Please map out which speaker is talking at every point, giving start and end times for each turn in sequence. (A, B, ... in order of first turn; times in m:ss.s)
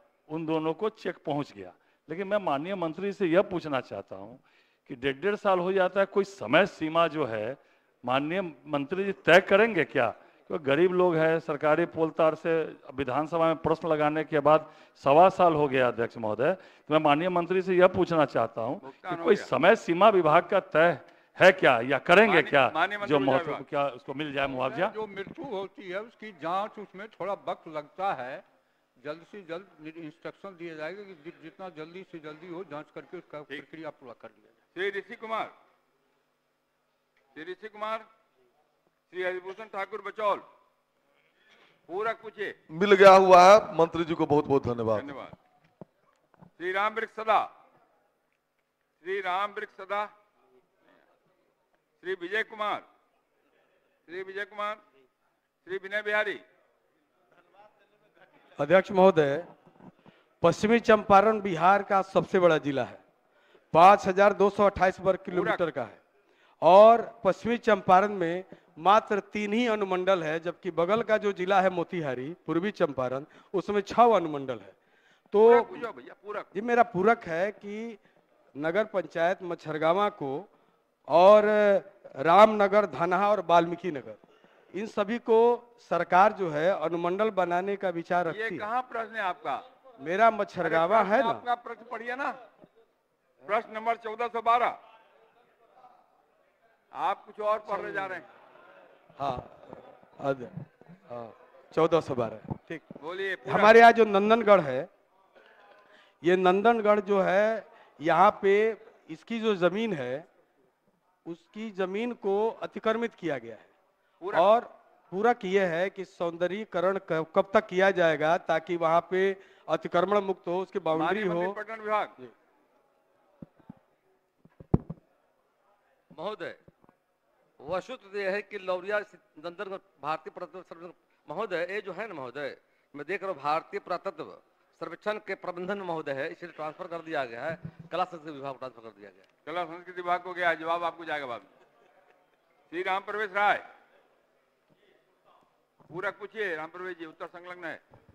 0:00.3-0:25.0 A
0:18.8-0:19.5 B
0:22.2-0:23.6 B
0:24.5-0:28.4 C
0:29.0-0:34.6 C
0:34.8-0:35.5 B
0:37.4-0:38.0 B
0:39.1-0:40.4 B
0:41.9-0:42.6 B
0:42.7-0:45.1 D
0:44.9-0:45.3 B
0:46.6-0:47.5 B
0:49.0-0:50.1 B
0:52.0-0:52.8 B
0:54.1-0:54.8 B
0:55.6-0:56.4 B
0:58.6-0:59.5 E
1:00.4-1:03.0 E
1:03.7-1:06.0 E
1:05.3-1:05.6 B
1:06.6-1:14.8 E
1:15.3-1:15.8 E
1:15.4-1:16.5 B
1:16.5-1:18.0 E
1:18.6-1:20.5 E
1:21.1-1:24.2 E
1:24.7-1:28.7 E
1:28.3-1:29.6 B
1:30.0-1:31.4 E
1:30.6-1:32.4 B
1:33.5-1:34.8 B
1:37.0-1:38.3 B
1:37.7-1:38.1 E
1:39.2-1:40.6 E
1:41.1-1:42.8 E
1:43.0-1:43.8 B
1:43.4-1:44.9 E
1:46.2-1:50.3 E
1:51.3-1:53.7 E
1:54.2-1:54.5 B
1:54.3-2:01.6 E
2:00.9-2:02.1 B
2:06.1-2:06.6 F
2:07.6-2:19.3 F
2:19.5-2:21.5 B
2:22.7-2:23.6 B
2:25.9-2:27.8 B